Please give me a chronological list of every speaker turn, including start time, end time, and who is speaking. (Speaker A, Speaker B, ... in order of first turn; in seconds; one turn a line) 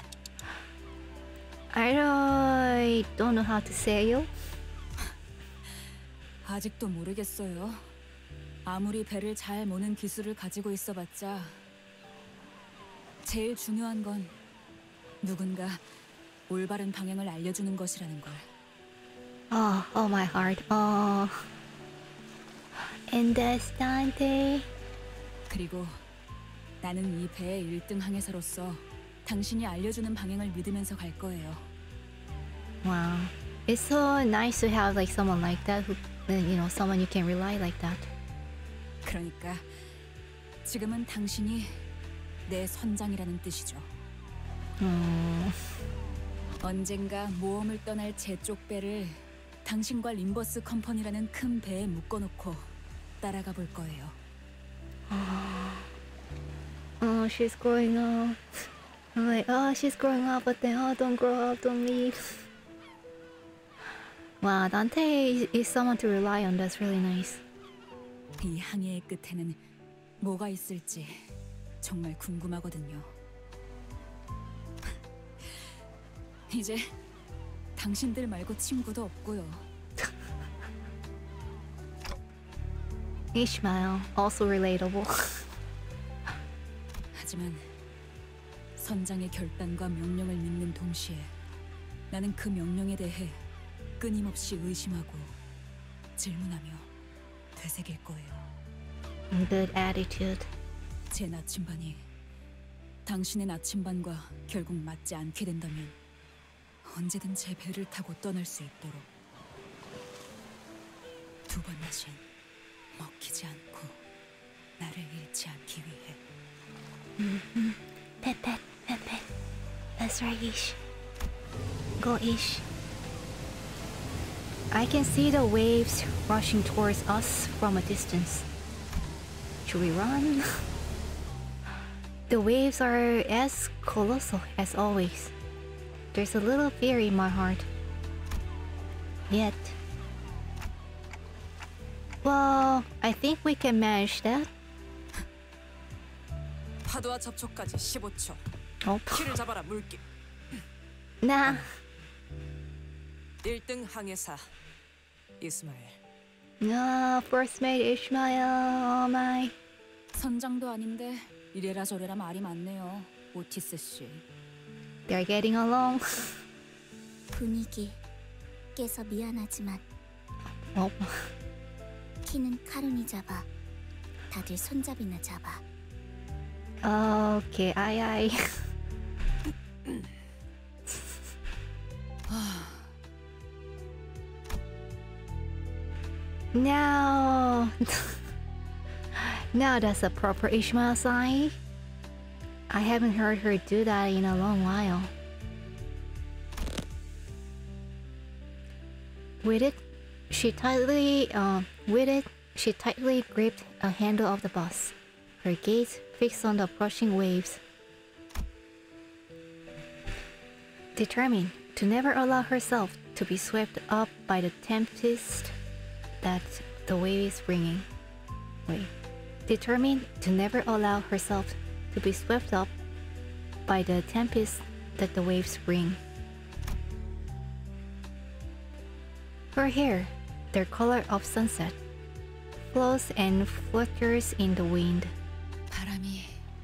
Speaker A: 1.7-4.3
Speaker B: 6.4-7.9
Speaker B: 8.7-11.6
Speaker B: 13.2-14.3
Speaker B: 15.2-15.8
Speaker B: 16.5-18.5
Speaker A: 19.5-21.4
Speaker A: 23.1-24.7
Speaker B: 25.5-26.0
Speaker B: 26.8-31.6
Speaker A: 32.8-38.1
Speaker B: 39.0-39.6
Speaker B: 40.6-41.8
Speaker B: 42.5-43.9
Speaker A: 44.8-45.5
Speaker B: 46.6-52.7
Speaker B: 53.2-54.1
Speaker A: 55.1-55.9
Speaker A: 57.0-58.4
Speaker A: 59.1-62.4
Speaker A: 64.4-67.4
Speaker B: 68.4-69.6
Speaker B: 70.2-71.2
Speaker B: 71.8-73.1
Speaker B: 76.5-76.9
Speaker B: 77.8-79.6
Speaker A: 83.3-85.4
Speaker B: 87.1-87.7
Speaker B: 88.8-91.3
Speaker B: 92.1-93.4
Speaker B: 94.0-95.3
Speaker B: 96.2-96.9
Speaker B: 97.5-98.5
Speaker A: 99.3-100.5
Speaker B: 101.1-102.0
Speaker B: 103.0-105.9
Speaker B: 106.8-109.0
Speaker B: 111.5-112.2
Speaker B: 112.9-114.0
Speaker B: 114.8-116.2
Speaker A: 117.2-119.2
Speaker A: 120.0-120.8
Speaker A: 122.0-122.6
Speaker A: 124.7-128.4
Speaker A: 129.7-130.6
Speaker A: 132.3-135.3
Speaker A: 136.1-137.7
Speaker A: 139.3-139.8
Speaker A: 142.2-144.5
Speaker C: 146.9-148.4
Speaker A: 148.8-149.3
Speaker C: 149.1-150.0
Speaker A: 151.2-151.7
Speaker C: 153.4-154.4
Speaker C: 155.4-156.0
Speaker A: 156.6-159.5
Speaker B: 160.1-164.2
Speaker A: 165.1-166.3
Speaker D: 167.3-168.0
Speaker D: 168.8-169.8
Speaker A: 170.7-171.3
Speaker D: 172.2-173.5
Speaker D: 174.3-175.6
Speaker A: 176.8-178.4
Speaker A: 186.5-188.2
Speaker A: 189.2-191.5
Speaker A: 192.7-195.1
Speaker A: 199.4-199.8
Speaker A: 200.3-207.6
Speaker A: 210.9-215.5
Speaker A: 216.2-217.8
Speaker A: 219.5-222.7
Speaker A: 223.7-226.0
Speaker A: 229.5-231.8
Speaker A: 232.7-235.1
Speaker B: 235.7-236.4